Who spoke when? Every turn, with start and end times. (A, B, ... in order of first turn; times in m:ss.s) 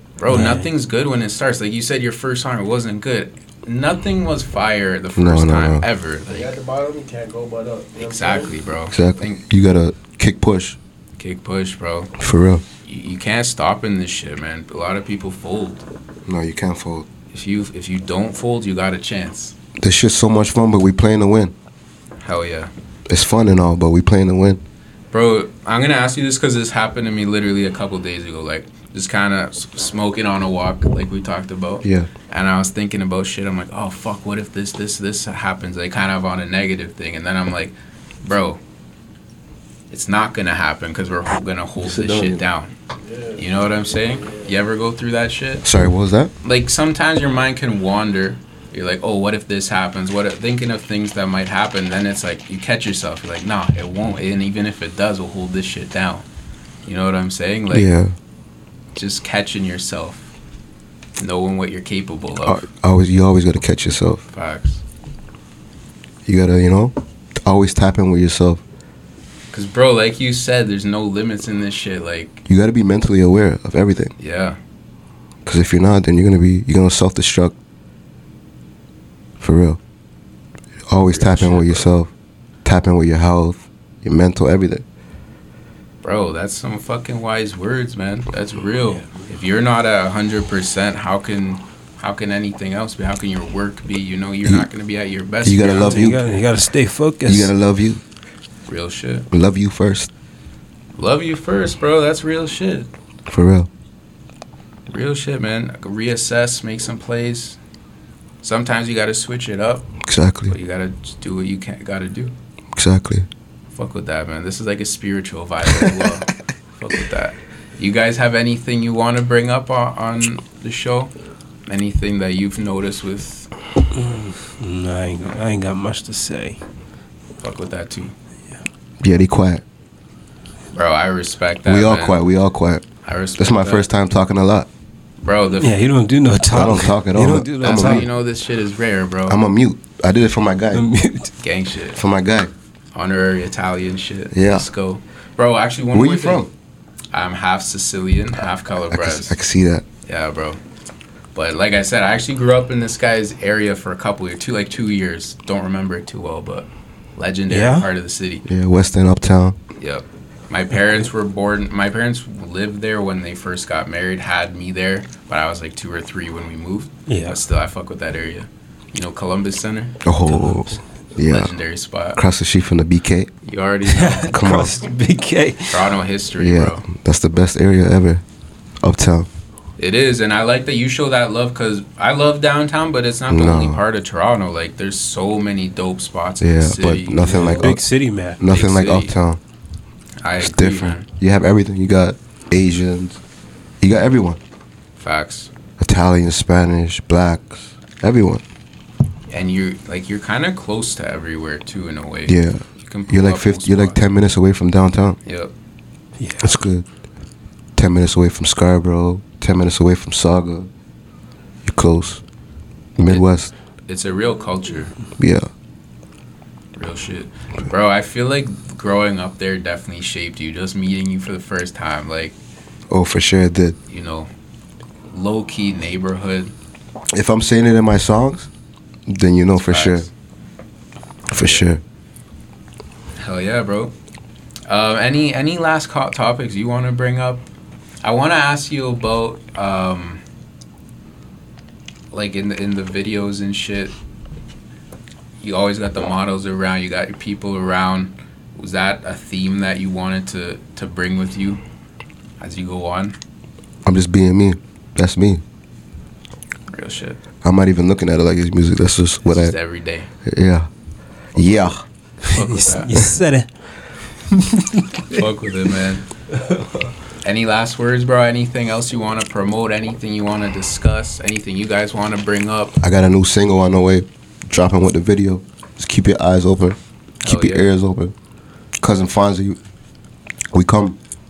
0:00.2-0:06.5 A
0:00.3-0:00.7 B
0:05.2-0:05.8 C
0:06.2-0:08.5 D
0:07.9-0:09.4 A
0:08.9-0:10.8 C
0:11.2-0:12.1 A
0:12.2-0:12.6 C
0:12.8-0:15.8 A
0:16.2-0:17.1 C
0:17.3-0:19.6 A
0:19.8-0:21.5 C
0:22.2-0:22.7 A
0:23.1-0:24.6 C
0:25.1-0:38.6 A
0:31.8-0:32.1 C
0:39.9-0:42.7 A
0:41.8-0:42.4 C
0:43.0-0:44.5 D
0:43.4-0:45.6 A
0:45.6-0:46.3 C
0:46.4-0:56.2 A
0:56.8-0:57.9 A
0:57.7-0:58.1 C
0:58.9-1:00.3 A
1:01.2-1:02.6 A
1:02.4-1:04.2 C
1:04.3-1:04.8 A
1:06.2-1:08.6 C
1:09.5-1:12.4 A
1:12.4-1:14.1 C
1:14.2-1:14.6 A
1:15.4-1:17.5 C
1:19.4-1:19.8 C
1:20.9-1:22.1 C
1:21.0-1:21.9 A
1:22.6-1:24.8 C
1:26.0-1:36.2 A
1:35.4-1:36.2 C
1:35.8-1:37.5 B
1:37.2-1:38.0 C
1:38.7-1:39.3 A
1:39.3-1:40.1 C
1:40.9-1:42.9 A
1:43.3-1:43.7 C
1:44.9-1:47.6 A
1:48.4-1:49.9 A
1:50.0-1:50.5 C
1:50.5-1:52.3 A
1:52.7-1:53.3 C
1:53.7-2:01.1 A
2:01.6-2:03.5 A
2:03.9-2:06.6 B
2:07.4-2:08.1 A
2:09.0-2:09.6 C
2:10.7-2:12.2 A
2:11.6-2:12.8 C
2:13.0-2:13.9 A
2:13.4-2:14.7 C
2:15.2-2:15.8 A
2:15.6-2:18.1 B
2:16.5-2:18.1 C
2:17.6-2:19.4 A
2:19.3-2:20.8 C
2:20.7-2:21.3 B
2:21.4-2:22.0 A
2:21.9-2:22.5 C
2:22.9-2:26.4 A
2:24.3-2:24.7 C
2:25.9-2:26.5 C
2:27.1-2:29.4 A
2:28.9-2:29.8 C
2:30.0-2:30.6 A
2:31.3-2:38.4 A
2:37.5-2:37.9 B
2:38.4-2:39.6 C
2:39.8-2:50.0 A
2:47.1-2:47.4 B
2:50.0-2:51.5 C
2:50.3-2:50.8 B
2:51.3-2:52.2 A
2:52.1-2:53.3 C
2:53.4-2:54.4 A
2:53.8-2:55.9 B
2:54.3-2:54.7 C
2:55.7-2:56.8 A
2:56.4-2:58.2 C
2:58.8-2:59.3 C
2:59.8-3:07.7 A
3:03.3-3:03.8 C
3:06.4-3:07.8 C
3:07.2-3:08.4 B
3:08.4-3:09.4 C
3:08.4-3:09.1 A
3:10.2-3:11.1 A
3:10.4-3:13.2 C
3:13.8-3:14.4 C
3:15.0-3:15.5 A
3:15.8-3:18.4 C
3:19.3-3:24.0 A
3:22.3-3:25.2 C
3:25.2-3:25.5 A
3:26.2-3:26.5 B
3:26.4-3:26.9 C
3:27.8-3:30.7 C
3:31.6-3:32.2 C
3:33.0-3:33.5 C
3:33.9-3:34.9 A
3:35.2-3:35.5 C
3:36.7-3:42.4 A
3:42.9-3:43.8 C
3:43.9-3:44.3 A
3:45.1-3:46.5 A
3:47.1-3:48.5 C
3:49.1-3:50.1 C
3:49.6-3:50.1 A
3:51.3-3:51.8 C
3:51.3-3:51.7 A
3:53.2-3:53.9 A
3:54.7-3:57.4 A
3:58.0-4:00.2 A
4:02.1-4:04.0 A
4:05.4-4:11.6 A
4:12.4-4:13.2 A
4:13.8-4:15.4 C
4:16.7-4:17.2 A
4:17.4-4:19.5 C
4:19.2-4:20.1 A
4:20.2-4:20.7 C
4:21.3-4:21.8 C
4:21.4-4:23.0 A
4:22.3-4:23.5 B
4:24.3-4:25.0 B
4:25.1-4:26.0 A
4:27.2-4:32.8 A
4:32.8-4:38.1 C
4:37.2-4:37.7 A
4:38.8-4:39.6 C
4:40.5-4:41.0 C